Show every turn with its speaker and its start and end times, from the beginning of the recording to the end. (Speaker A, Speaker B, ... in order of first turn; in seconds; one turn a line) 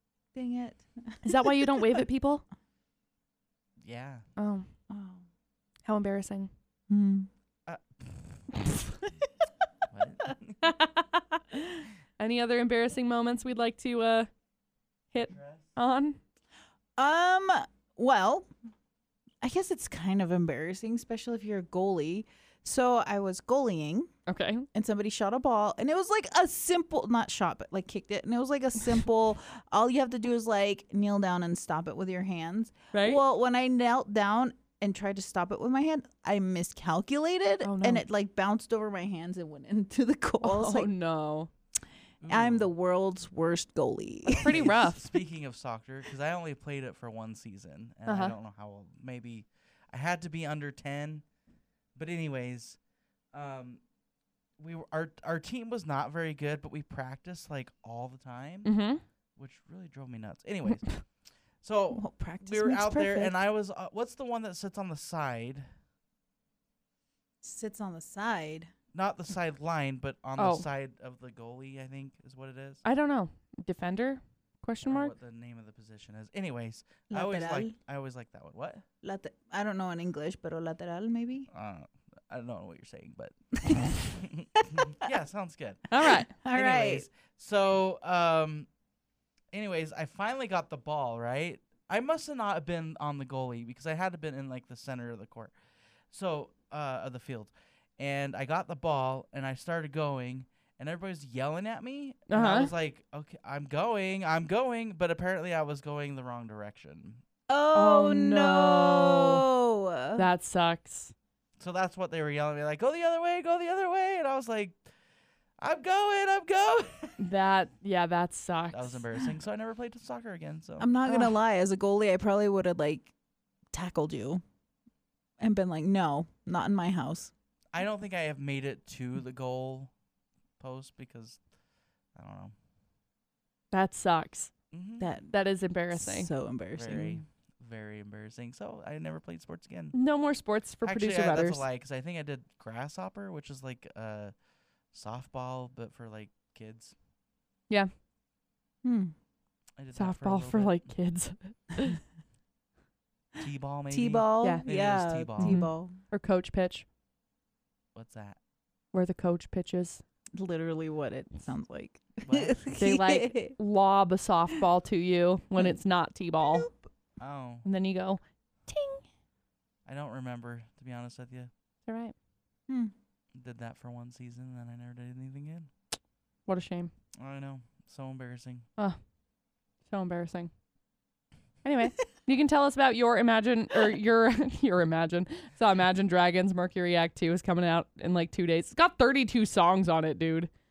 Speaker A: 0.3-1.9
Speaker B: 1.2-2.4
Speaker C: 3.8-4.2
Speaker B: 4.4-4.7
Speaker A: 4.9-5.2
Speaker B: 5.8-6.5
Speaker A: 6.9-7.3
Speaker C: 7.7-8.6
Speaker C: 9.9-10.6
Speaker B: 10.6-11.2
Speaker B: 12.2-14.3
Speaker B: 15.1-16.2
Speaker C: 15.2-15.7
Speaker A: 17.0-18.5
Speaker A: 19.4-24.1
Speaker B: 24.3-24.6
Speaker A: 24.7-40.9
Speaker B: 32.9-33.2
Speaker B: 37.6-38.0
Speaker B: 40.4-41.5
Speaker C: 42.2-42.7
Speaker A: 42.2-44.7
Speaker C: 44.3-51.2
Speaker B: 44.4-45.0
Speaker B: 48.0-48.3
Speaker C: 52.0-52.8
Speaker C: 53.3-53.8
Speaker C: 54.6-58.8
Speaker B: 58.6-59.0
Speaker C: 59.4-61.1
Speaker C: 61.6-65.7
Speaker A: 61.9-63.4
Speaker A: 67.4-68.7
Speaker C: 68.9-72.8
Speaker B: 70.4-70.7
Speaker B: 72.8-75.1
Speaker C: 74.8-78.8
Speaker A: 77.1-77.7
Speaker A: 79.0-81.5
Speaker C: 81.5-88.7
Speaker A: 83.6-83.9
Speaker B: 85.9-86.3
Speaker A: 86.1-87.1
Speaker C: 89.5-95.5
Speaker C: 96.1-107.2
Speaker B: 102.3-102.7
Speaker A: 107.5-110.2
Speaker B: 107.7-109.4
Speaker B: 110.2-111.1
Speaker C: 111.6-114.8
Speaker C: 115.6-117.3
Speaker B: 117.2-119.0
Speaker C: 118.7-120.9
Speaker A: 120.8-123.1
Speaker B: 121.0-121.4
Speaker A: 123.7-124.4
Speaker A: 125.4-127.3
Speaker C: 127.7-129.9
Speaker C: 130.6-131.4
Speaker C: 132.2-132.5
Speaker B: 133.7-134.5
Speaker C: 134.7-135.2
Speaker A: 135.0-135.3
Speaker B: 135.3-136.3
Speaker A: 135.9-137.2
Speaker C: 136.7-139.9
Speaker B: 139.9-141.6
Speaker C: 140.8-144.3
Speaker C: 144.9-146.9
Speaker A: 148.8-149.1
Speaker C: 149.8-150.9
Speaker B: 149.9-152.0
Speaker C: 153.4-155.6
Speaker A: 153.9-155.9
Speaker B: 155.4-156.8
Speaker C: 157.9-158.4
Speaker B: 158.9-160.0
Speaker A: 160.3-163.6
Speaker C: 162.2-162.7
Speaker B: 162.8-166.7
Speaker A: 166.4-166.8
Speaker C: 167.2-167.6
Speaker B: 167.6-169.0
Speaker C: 169.8-171.5
Speaker B: 171.8-172.1
Speaker A: 172.7-172.9
Speaker C: 173.3-175.7
Speaker B: 176.4-176.9
Speaker C: 177.2-178.6
Speaker B: 179.9-180.5
Speaker B: 181.6-190.5